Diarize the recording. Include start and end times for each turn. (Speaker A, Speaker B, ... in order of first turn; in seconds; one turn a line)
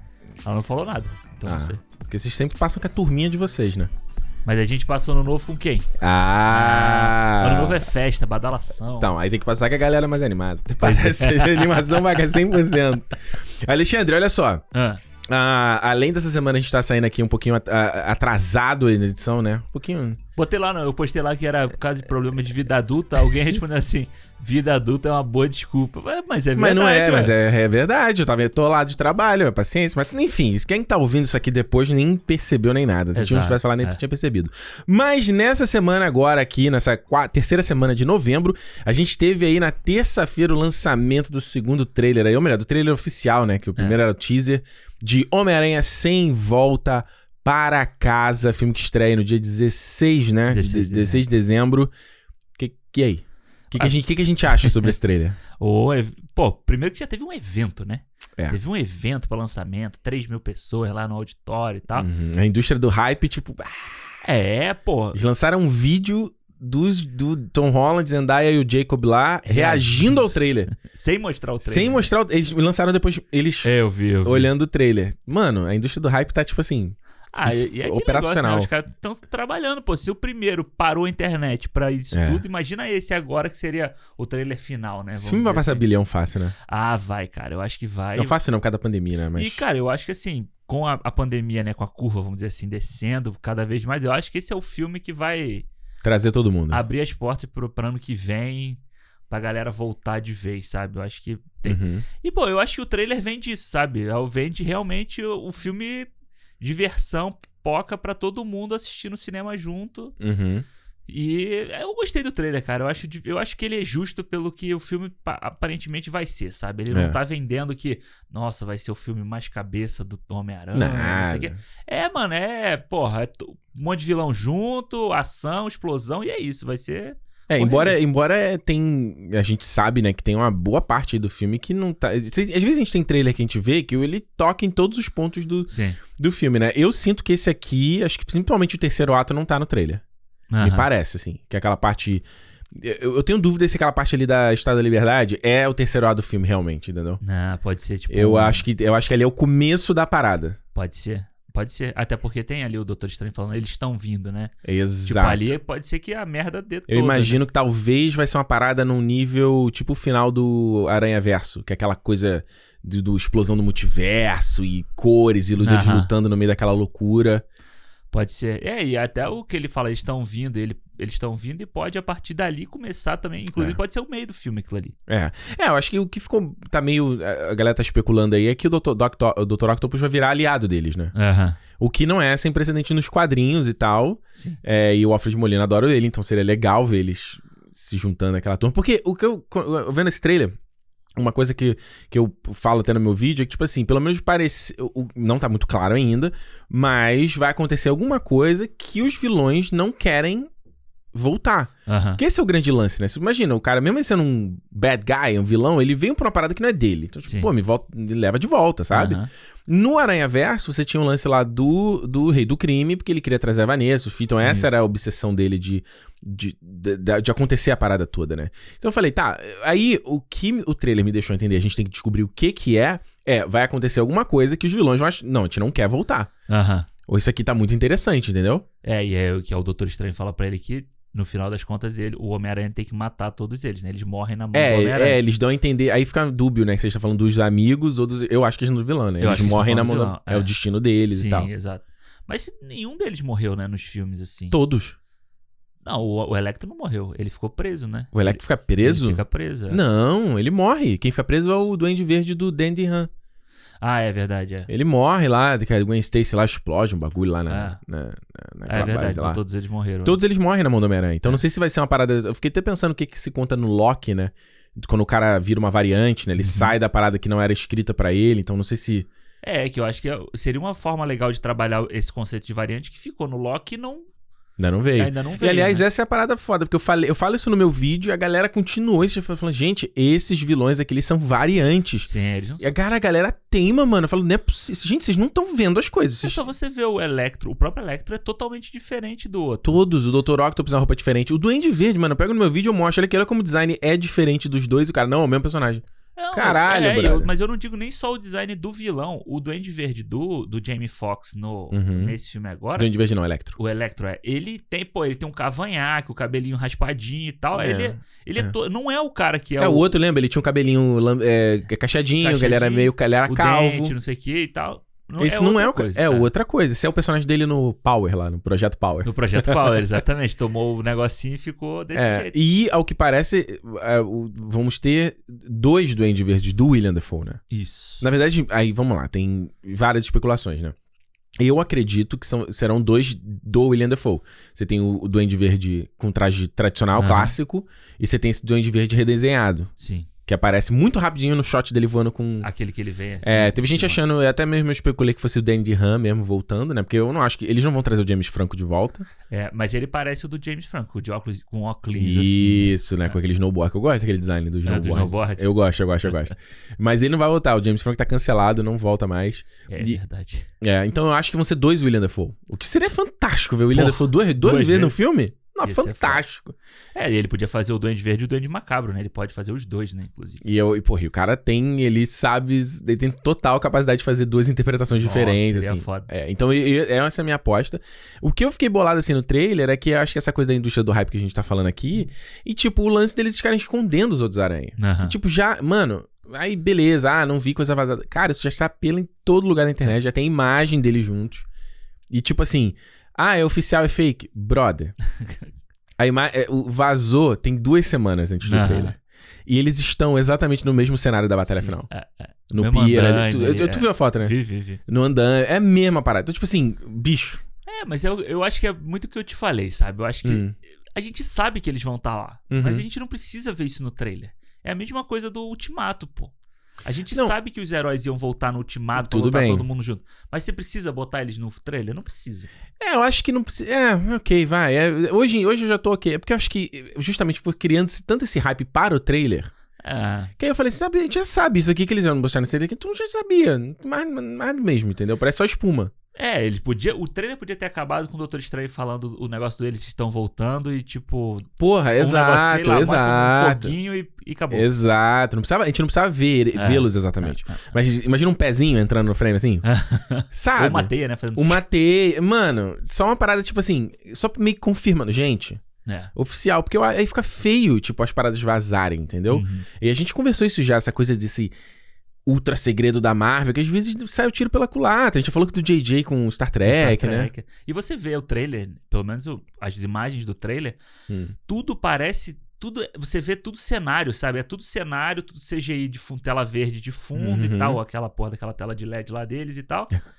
Speaker A: 0.4-1.8
Speaker B: 1.4-3.9
Speaker A: 4.5-5.9
Speaker B: 6.0-7.9
Speaker A: 6.5-9.1
Speaker B: 9.0-14.6
Speaker A: 10.8-12.6
Speaker A: 14.7-15.0
Speaker B: 15.3-20.2
Speaker A: 20.4-27.4
Speaker B: 26.6-51.9
Speaker A: 33.1-34.0
Speaker A: 50.5-51.2
Speaker B: 52.6-55.4
Speaker A: 53.7-54.0
Speaker A: 54.5-54.9
Speaker A: 55.6-62.1
Speaker B: 62.0-64.1
Speaker A: 64.2-65.2
Speaker B: 65.1-70.7
Speaker A: 69.5-72.1
Speaker B: 71.6-73.7
Speaker A: 73.6-74.5
Speaker B: 74.2-78.7
Speaker A: 77.3-85.8
Speaker B: 82.1-82.4
Speaker B: 85.2-86.5
Speaker A: 86.7-88.4
Speaker B: 88.2-89.7
Speaker A: 89.3-95.7
Speaker B: 96.0-96.8
Speaker A: 96.7-106.1
Speaker B: 101.7-102.0
Speaker A: 106.6-110.2
Speaker B: 110.2-110.7
Speaker A: 111.1-128.0
Speaker B: 116.9-117.2
Speaker B: 120.7-121.6
Speaker B: 127.5-140.0
Speaker A: 135.7-136.0
Speaker A: 140.5-140.9
Speaker B: 140.6-147.2
Speaker A: 147.2-148.7
Speaker B: 148.1-150.6
Speaker A: 150.8-154.5
Speaker B: 154.6-155.6
Speaker A: 155.1-157.4
Speaker B: 156.9-167.4
Speaker A: 165.6-166.1
Speaker A: 168.1-175.0
Speaker B: 175.1-181.1
Speaker A: 181.1-181.6
Speaker B: 181.8-190.6
Speaker B: 191.2-200.5
Speaker B: 201.1-226.3
Speaker A: 201.9-202.2
Speaker A: 208.9-209.3
Speaker A: 214.4-214.8
Speaker A: 226.5-226.9
Speaker B: 227.1-228.7
Speaker A: 228.8-235.2
Speaker B: 234.5-241.5
Speaker A: 239.2-240.6
Speaker A: 241.1-244.6
Speaker B: 244.5-245.0
Speaker A: 245.8-249.8
Speaker B: 248.1-253.1
Speaker A: 253.8-254.7
Speaker B: 254.7-259.4
Speaker A: 257.5-257.8
Speaker A: 258.7-260.2
Speaker B: 260.1-269.1
Speaker A: 266.4-266.8
Speaker A: 269.4-274.1
Speaker B: 274.6-282.1
Speaker A: 275.0-275.9
Speaker A: 282.1-282.7
Speaker B: 282.6-286.4
Speaker A: 286.2-289.8
Speaker B: 289.6-297.3
Speaker A: 296.2-302.9
Speaker B: 301.7-302.1
Speaker B: 302.8-303.6
Speaker A: 303.6-309.9
Speaker B: 307.6-308.5
Speaker B: 309.6-313.9
Speaker A: 312.2-316.3
Speaker B: 315.2-319.8
Speaker A: 319.0-322.3
Speaker B: 321.9-327.4
Speaker A: 327.5-328.1
Speaker B: 328.0-330.8
Speaker B: 331.4-339.7
Speaker A: 337.0-337.4
Speaker A: 339.8-340.1
Speaker B: 340.3-342.5
Speaker A: 342.4-344.0
Speaker B: 343.2-349.1
Speaker A: 349.3-352.8
Speaker B: 352.0-360.0
Speaker A: 354.6-355.5
Speaker A: 359.7-360.5
Speaker B: 360.6-366.6
Speaker A: 363.7-365.0
Speaker A: 365.6-366.2
Speaker A: 366.9-370.4
Speaker B: 370.4-391.5
Speaker A: 374.9-376.1
Speaker A: 384.8-385.1
Speaker B: 392.1-394.9
Speaker A: 395.1-395.5
Speaker B: 396.0-401.9
Speaker A: 398.4-398.9
Speaker A: 401.5-404.8
Speaker B: 402.5-404.3
Speaker B: 404.9-407.4
Speaker A: 407.7-416.3
Speaker B: 410.2-410.5
Speaker B: 412.5-412.9
Speaker A: 416.8-422.5
Speaker B: 419.0-419.7
Speaker B: 422.8-429.5
Speaker A: 429.8-430.3
Speaker B: 430.4-435.9
Speaker A: 436.1-444.7
Speaker B: 441.6-443.8
Speaker B: 444.5-449.6
Speaker A: 446.6-447.7
Speaker A: 449.6-451.6
Speaker B: 450.3-455.6
Speaker A: 455.9-456.1
Speaker B: 456.1-461.5
Speaker A: 459.3-459.7
Speaker B: 462.3-467.3
Speaker A: 466.6-470.8
Speaker B: 471.1-471.4
Speaker A: 471.5-479.9
Speaker B: 477.2-477.8